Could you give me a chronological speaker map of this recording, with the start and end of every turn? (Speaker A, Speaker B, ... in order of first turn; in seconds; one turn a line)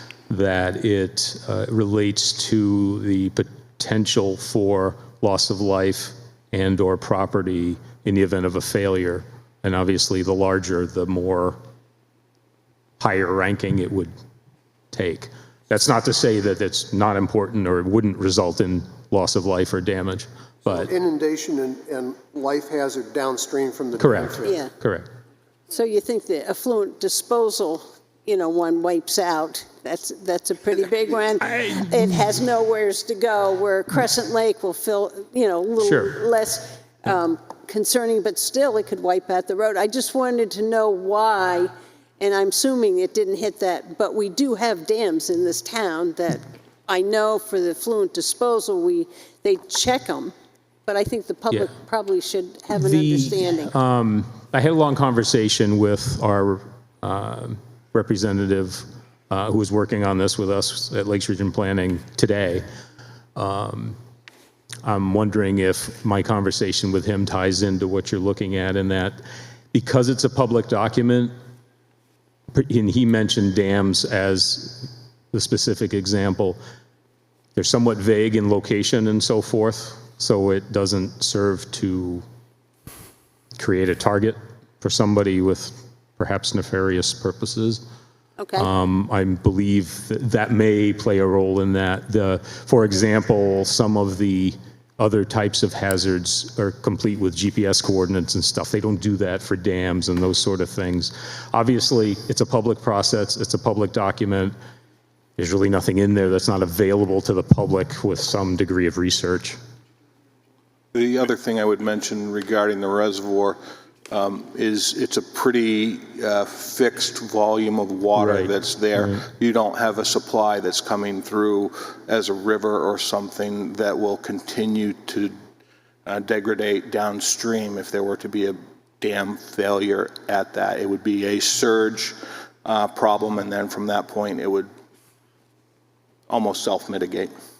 Speaker A: 0.3-11.6
Speaker A: 13.0-14.1
Speaker A: 14.9-20.9
Speaker B: 20.6-24.6
Speaker A: 24.0-25.1
Speaker C: 24.4-24.7
Speaker C: 25.7-50.3
Speaker A: 35.8-36.1
Speaker C: 50.9-53.7
Speaker A: 52.7-62.6
Speaker A: 63.4-64.0
Speaker A: 64.8-69.2
Speaker A: 69.7-71.3
Speaker A: 72.5-76.6
Speaker A: 77.6-82.2
Speaker A: 83.6-87.8
Speaker C: 88.4-88.7
Speaker A: 88.6-104.5
Speaker A: 105.4-109.6
Speaker D: 110.9-113.6
Speaker D: 114.1-125.3
Speaker A: 118.2-119.2
Speaker D: 126.0-134.7
Speaker D: 136.3-137.3